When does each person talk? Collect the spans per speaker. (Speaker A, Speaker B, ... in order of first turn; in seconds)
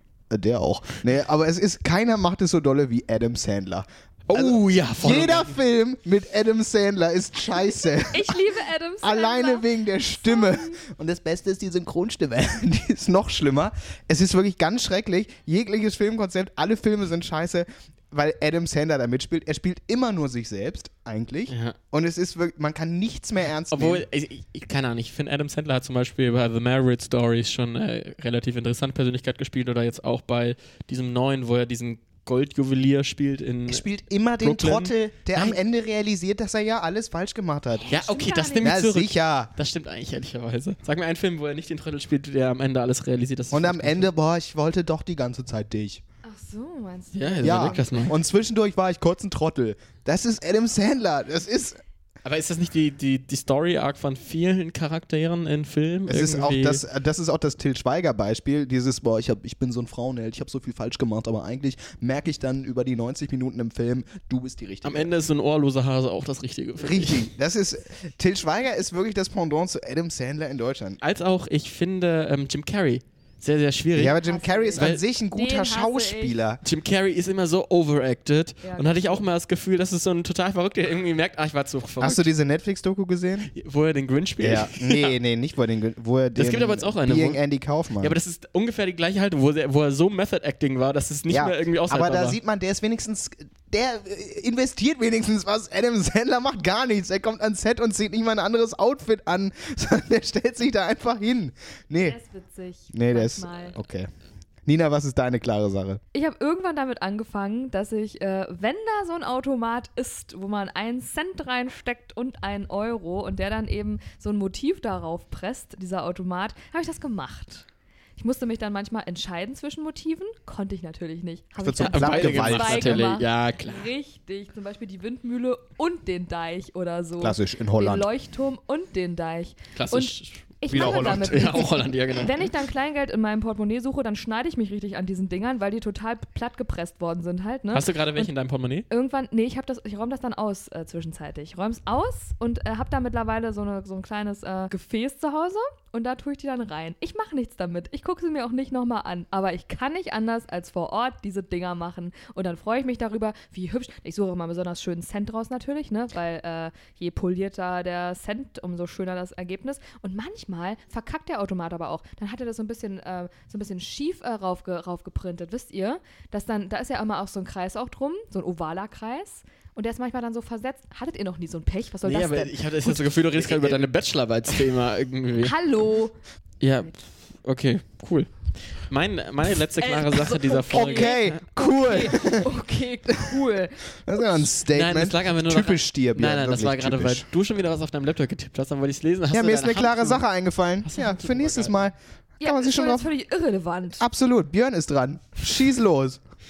Speaker A: 0.3-8.4, 9.0-24.0, 33.7-37.9, 38.6-39.5, 43.5-46.0, 47.4-51.8, 56.1-65.1, 66.8-71.0, 73.9-76.6, 82.0-83.5, 84.4-88.2, 91.3-102.2, 102.9-104.1, 104.7-106.0, 121.6-123.1, 127.2-128.1, 130.7-131.6, 173.4-173.9, 180.7-182.4, 183.2-183.4, 184.0-187.3, 189.3-193.1, 194.0-196.2
Speaker B: 4.3-5.5, 21.5-21.7, 23.7-33.9, 34.4-35.6, 37.9-44.1, 47.1-48.1, 52.2-56.8, 64.8-67.3, 71.0-74.2, 76.6-82.3, 83.5-85.1, 86.3-87.4, 88.0-92.4, 121.8-123.9, 129.7-132.5, 137.7-138.8, 172.0-175.5, 176.6-182.0, 184.7-190.2, 190.8-191.9
Speaker C: 8.1-10.8, 37.8-38.8, 46.2-48.1, 74.2-76.4, 78.6-79.2, 102.0-103.8, 106.1-117.7, 118.2-138.3, 138.9-173.0, 175.4-176.1, 179.8-183.8, 192.4-194.0